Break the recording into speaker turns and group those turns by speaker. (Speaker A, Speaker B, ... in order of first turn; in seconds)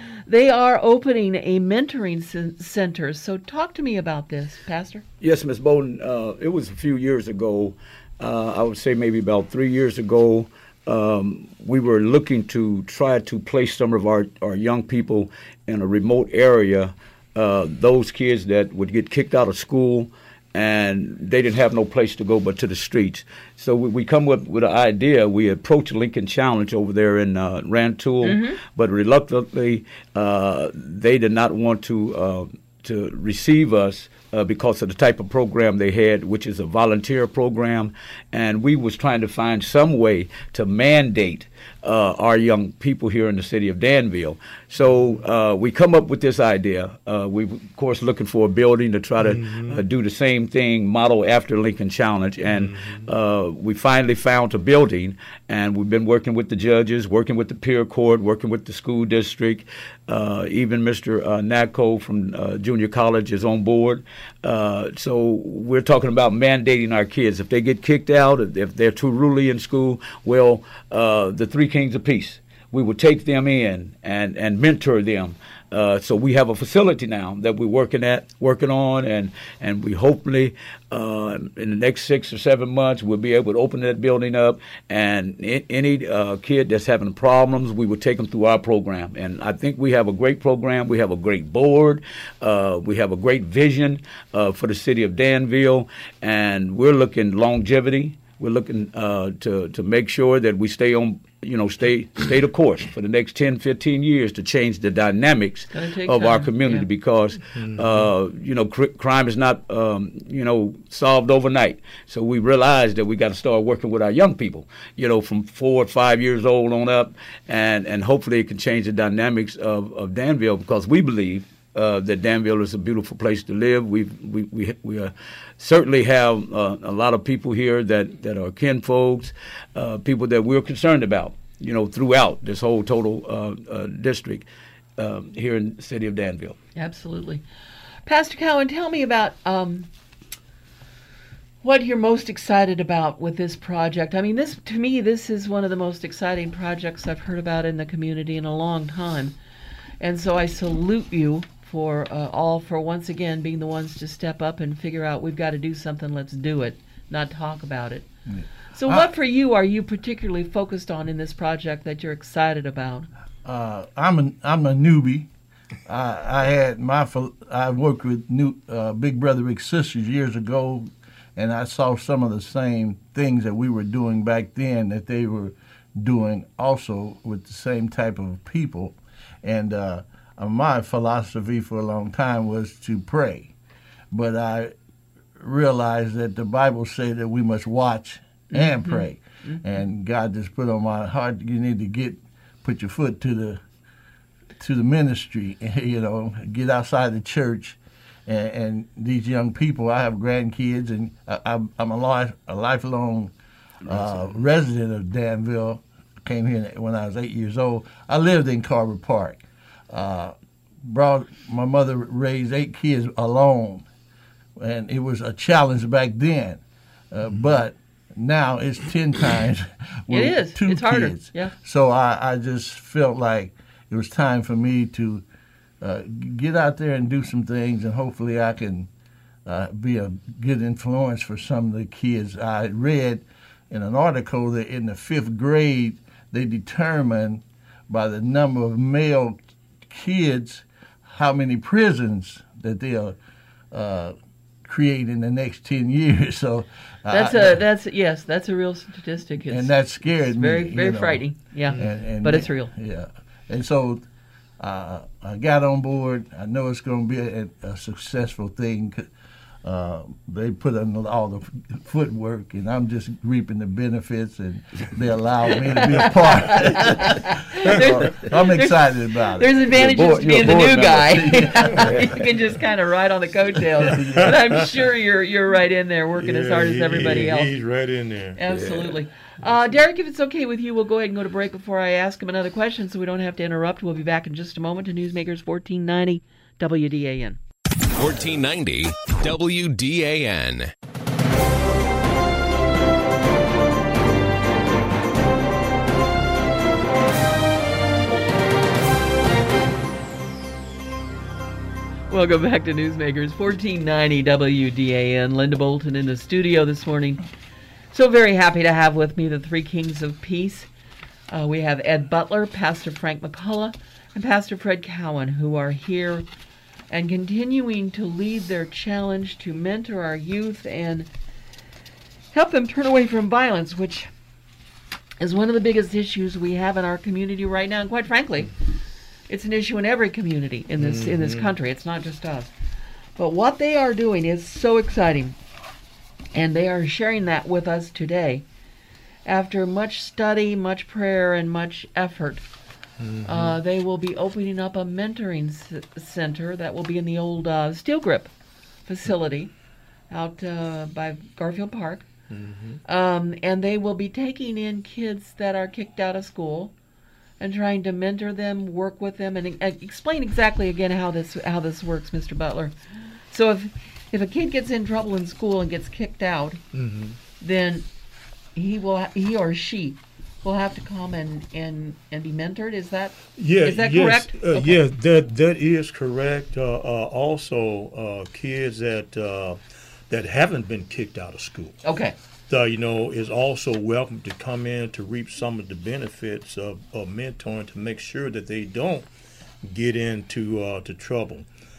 Speaker A: 0.3-5.0, 28.2-28.6, 105.7-106.9, 136.8-137.4, 138.1-139.9, 141.6-149.3, 150.0-158.1, 158.7-163.1, 188.5-189.6, 220.1-221.5, 247.1-252.7, 265.7-277.5, 278.4-287.4, 302.1-307.2, 307.9-310.7, 311.3-316.2, 316.9-321.1, 322.3-324.1, 325.2-328.5, 329.3-332.5, 333.2-335.4, 336.3-338.4, 339.2-342.4, 343.2-348.3, 348.9-349.5, 350.1-352.1, 352.8-356.7, 357.4-362.7, 363.3-366.6, 367.4-367.9, 368.5-374.8, 381.8-382.1
Speaker B: 5.2-136.6, 203.8-204.1, 269.7-272.3, 278.5-279.0
Speaker C: 44.8-45.2, 49.2-49.8, 52.4-53.1, 107.5-108.1, 273.9-274.6, 276.2-278.4, 330.8-331.5, 343.0-343.6, 352.3-352.8, 366.7-367.2, 373.4-379.6, 380.1-381.8, 382.5-389.1, 389.6-391.4
Speaker D: 158.2-159.1, 163.4-165.3, 165.8-183.5, 184.1-184.7, 185.4-193.6, 194.6-203.3, 203.8-213.8, 214.6-225.2, 225.8-228.9, 229.4-243.2, 243.7-247.6, 249.5-254.0, 254.6-259.1, 259.6-269.6, 271.1-272.2, 273.8-274.6
Speaker E: 288.0-290.7